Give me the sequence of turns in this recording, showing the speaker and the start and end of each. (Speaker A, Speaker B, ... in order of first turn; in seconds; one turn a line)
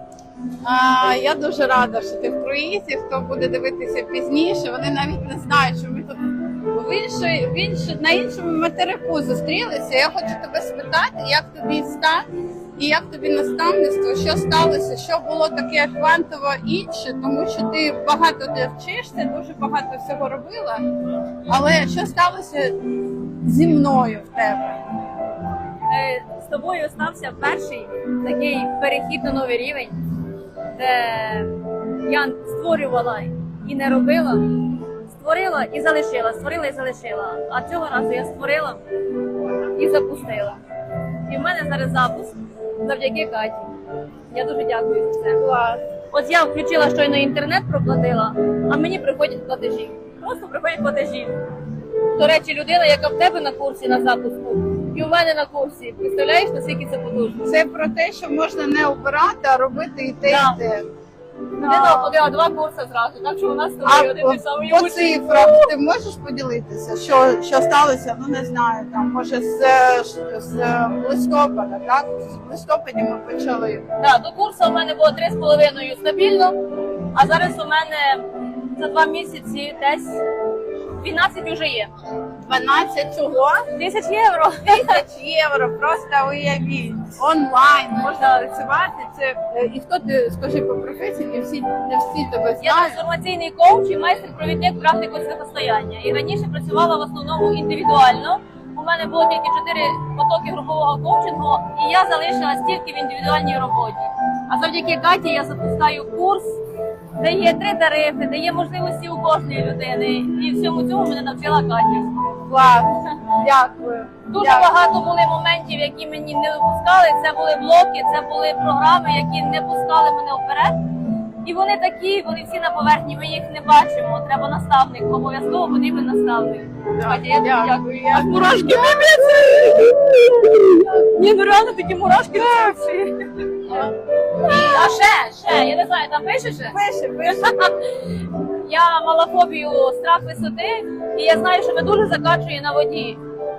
Speaker A: 0.6-20.8
Speaker A: 21.5-22.8
Speaker A: 23.4-24.8
Speaker B: 25.9-29.9
Speaker B: 30.7-38.8
Speaker B: 39.7-40.6
Speaker B: 41.1-43.7
Speaker B: 44.3-45.5
Speaker A: 45.4-45.8
Speaker B: 46.1-51.4
Speaker B: 52.1-57.5
Speaker A: 57.4-60.9
Speaker B: 60.3-60.6
Speaker B: 61.5-65.7
Speaker A: 61.6-62.2
Speaker A: 63.8-73.8
Speaker B: 74.0-80.2
Speaker B: 80.9-81.9
Speaker A: 82.4-83.7
Speaker B: 83.7-85.0
Speaker A: 84.7-93.0
Speaker B: 88.2-88.5
Speaker B: 92.6-106.6
Speaker B: 107.2-112.4
Speaker A: 112.5-114.7
Speaker B: 113.0-113.3
Speaker B: 114.3-120.8
Speaker B: 121.4-143.2
Speaker A: 127.0-129.6
Speaker A: 133.7-135.0
Speaker A: 136.7-137.6